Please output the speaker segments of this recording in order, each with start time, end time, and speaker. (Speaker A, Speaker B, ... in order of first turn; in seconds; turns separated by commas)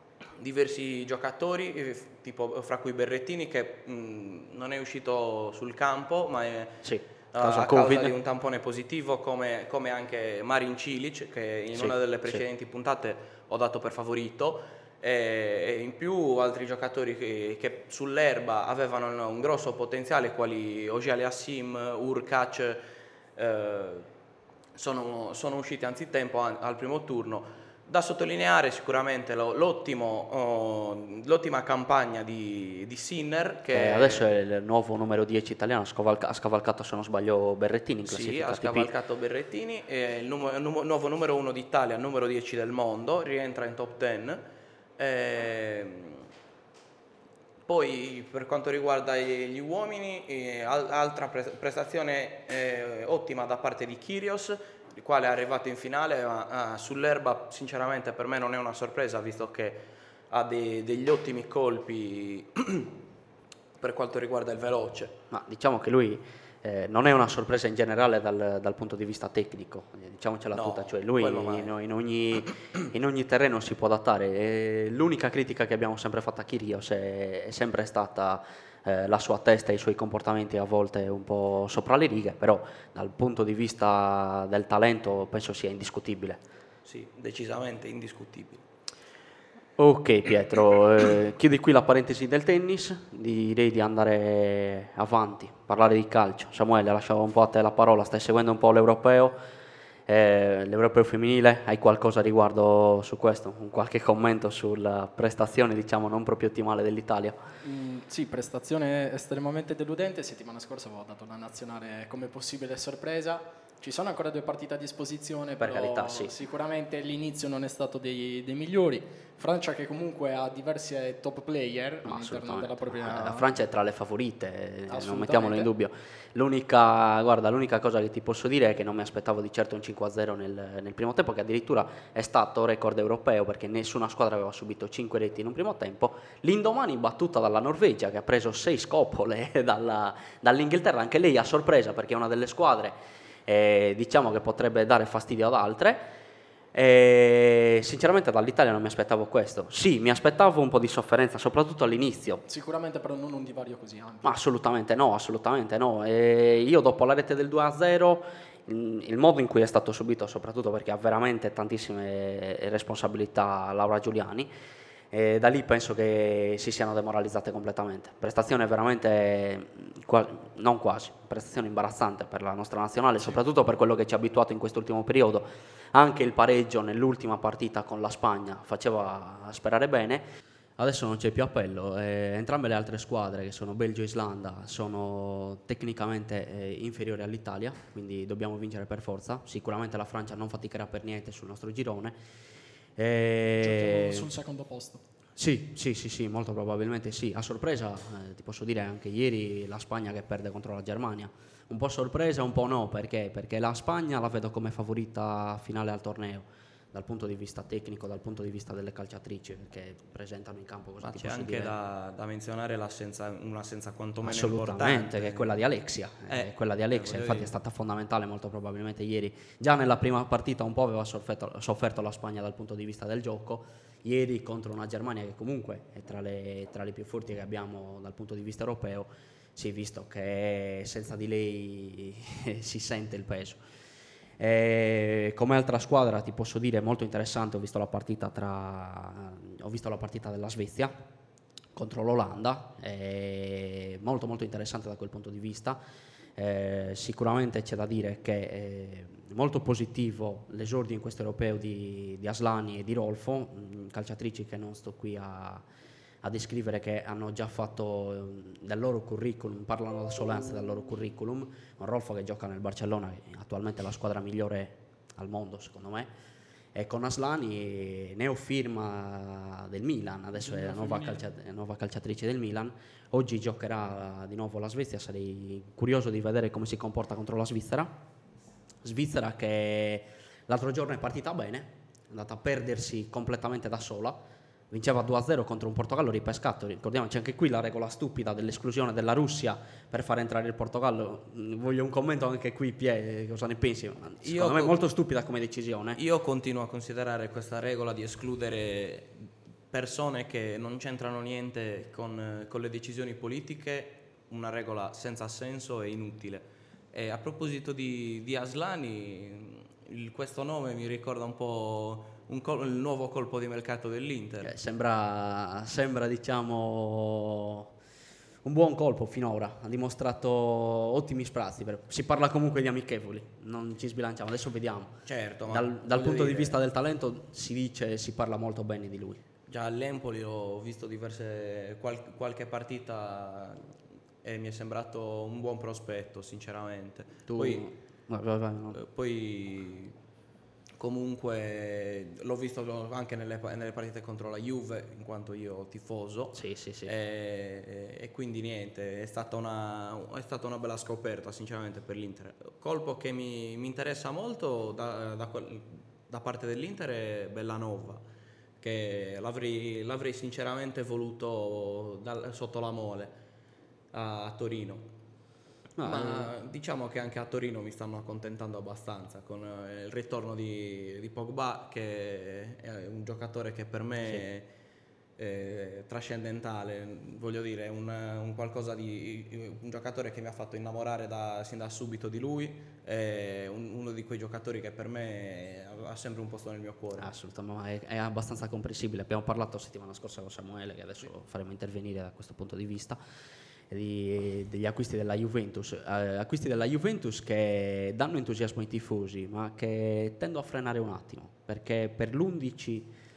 Speaker A: 0.4-22.8, Speaker B: 6.8-8.2, Speaker B: 11.8-12.4, Speaker A: 23.4-24.1, Speaker A: 24.8-34.3, Speaker B: 33.7-38.9, Speaker A: 38.0-44.4, Speaker A: 45.0-46.3, Speaker A: 47.7-62.9, Speaker A: 63.8-65.2, Speaker B: 65.3-86.4, Speaker A: 70.5-71.7, Speaker A: 86.8-88.6, Speaker B: 89.8-99.4, Speaker B: 100.1-107.4, Speaker C: 107.6-123.5, Speaker B: 115.6-116.3, Speaker B: 122.0-143.0, Speaker C: 124.9-125.7, Speaker B: 143.5-146.1, Speaker B: 146.7-152.4, Speaker C: 152.5-154.4, Speaker B: 154.2-164.5, Speaker B: 165.1-180.2, Speaker B: 180.8-192.2, Speaker B: 193.0-194.3, Speaker C: 193.6-195.0, Speaker B: 195.4-211.7, Speaker A: 211.0-215.6, Speaker B: 214.2-233.6, Speaker A: 216.3-217.5, Speaker B: 234.4-240.9, Speaker B: 241.8-245.8, Speaker B: 246.4-255.6, Speaker B: 256.2-266.1, Speaker B: 266.8-277.9, Speaker C: 270.4-271.2, Speaker B: 278.8-296.0, Speaker A: 294.2-294.8, Speaker A: 296.0-314.5, Speaker B: 314.4-317.7, Speaker B: 318.4-325.0, Speaker A: 325.1-326.6, Speaker B: 325.5-329.2, Speaker A: 329.5-333.7, Speaker A: 334.2-337.7, Speaker B: 337.3-338.8, Speaker A: 338.7-339.9, Speaker A: 340.8-358.0, Speaker B: 346.3-346.9, Speaker A: 358.6-363.2, Speaker A: 363.9-364.9, Speaker B: 365.8-366.3, Speaker A: 365.8-374.5, Speaker A: 375.2-387.1, Speaker B: 387.0-393.0, Speaker B: 393.7-402.9